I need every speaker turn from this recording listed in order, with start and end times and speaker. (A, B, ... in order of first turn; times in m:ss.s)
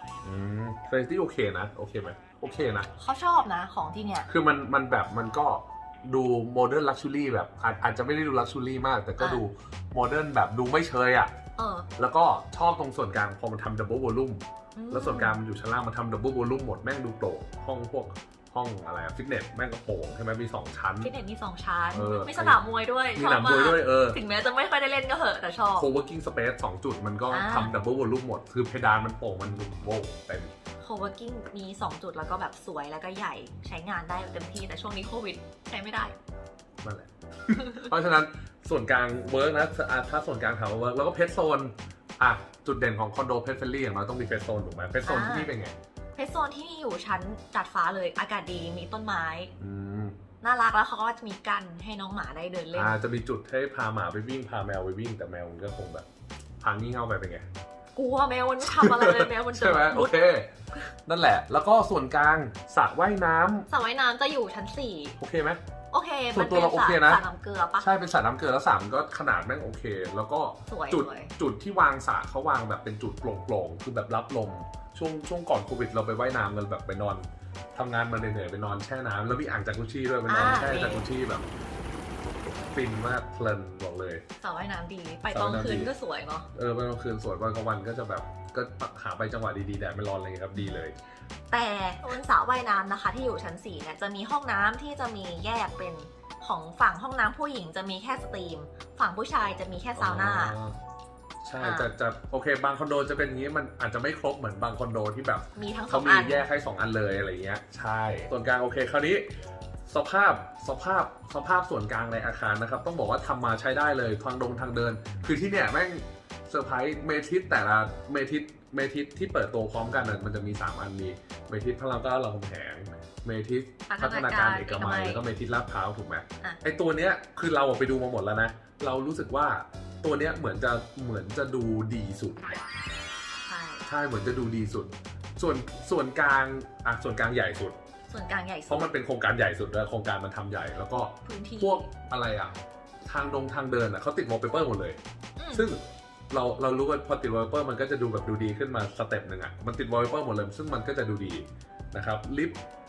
0:00.2-0:02.9 A
0:03.0-0:04.3 B
0:04.3-0:11.3 A
0:09.2-0:09.4 B
0:11.6-0:11.9 B
0:12.0-0:21.1 A
0:14.7-0:15.4 B
0:21.0-0:25.9 B
0:21.9-0:22.6 A
0:23.1-0:24.2 A
0:25.8-0:30.5 A
0:27.3-0:27.7 B
0:30.8-0:36.1 B
0:36.8-0:45.7 A
0:37.5-0:37.9 B
0:45.0-0:45.5 B
0:46.2-0:49.5 B
0:49.6-0:50.2 A
0:50.4-0:53.0 B
0:52.7-0:56.0 A
0:56.6-0:57.5 A
0:57.9-1:00.2 B
0:58.6-1:00.5 A
1:01.1-1:03.7 A
1:03.7-1:05.2 B
1:05.2-1:05.6 A
1:05.9-1:07.9 B
1:06.3-1:07.2 A
1:07.8-1:17.2 A
1:10.7-1:11.3 B
1:17.7-1:21.5 A
1:20.3-1:21.0 B
1:22.7-1:24.2 A
1:24.4-1:26.5 B
1:25.3-1:25.9 A
1:26.5-1:31.0 A
1:30.5-1:30.8 B
1:31.5-1:40.6 B
1:40.0-1:40.8 A
1:41.4-1:49.3 A
1:41.6-1:41.9 B
1:45.5-1:46.5 B
1:49.9-2:12.6 A
2:03.9-2:05.2 B
2:13.4-2:13.8 B
2:13.8-2:17.8 A
2:18.1-2:18.9 B
2:18.7-2:25.0 A
2:21.2-2:21.9 B
2:25.4-2:25.7 B
2:25.5-2:32.6 A